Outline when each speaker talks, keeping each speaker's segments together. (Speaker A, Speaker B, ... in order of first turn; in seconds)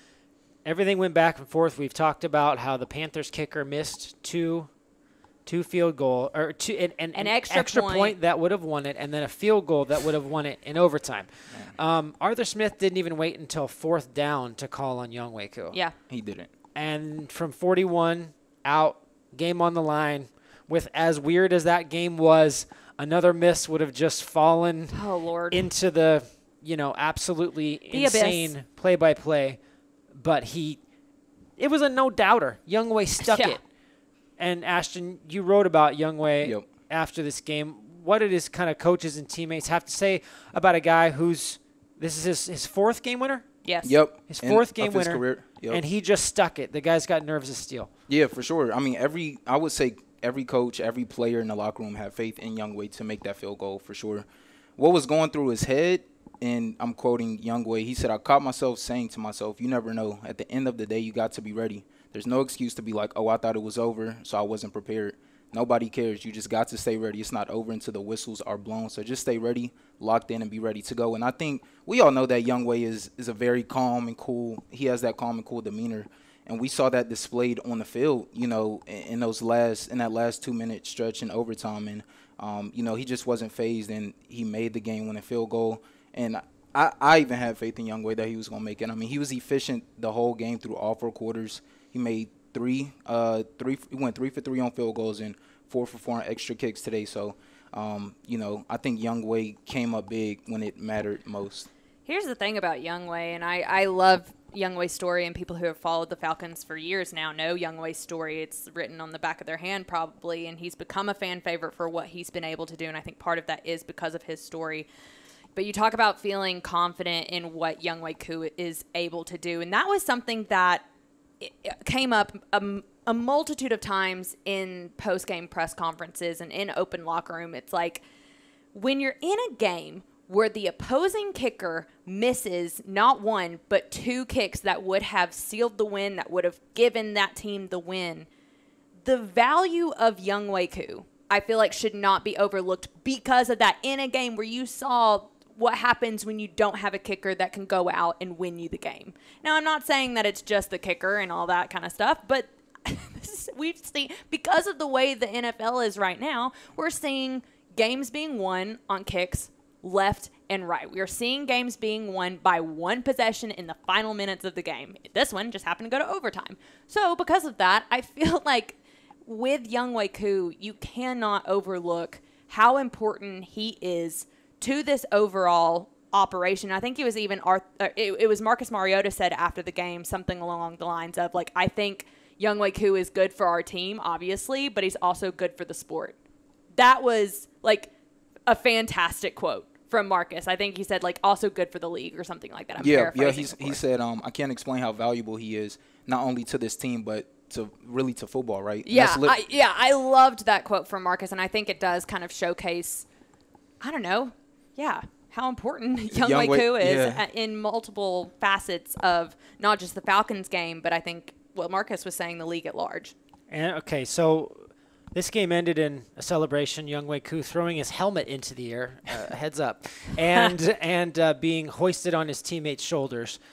Speaker A: 0.7-4.7, 5.5-15.8, 16.8-29.6, 30.1-30.8, 31.6-33.6, 34.4-43.5, 44.3-47.9, 213.5-223.4
Speaker B: 7.2-8.2, 24.9-25.7, 27.9-28.5, 33.2-33.6, 43.6-44.0, 102.1-114.9, 115.6-120.9, 121.4-128.0, 128.7-138.3, 139.1-186.2, 186.8-187.9, 188.5-193.8, 198.8-203.1, 203.8-213.1
Speaker C: 16.1-16.5, 36.4-36.7, 43.8-45.8, 48.1-54.2, 54.8-101.7, 192.8-199.4, 206.1-207.2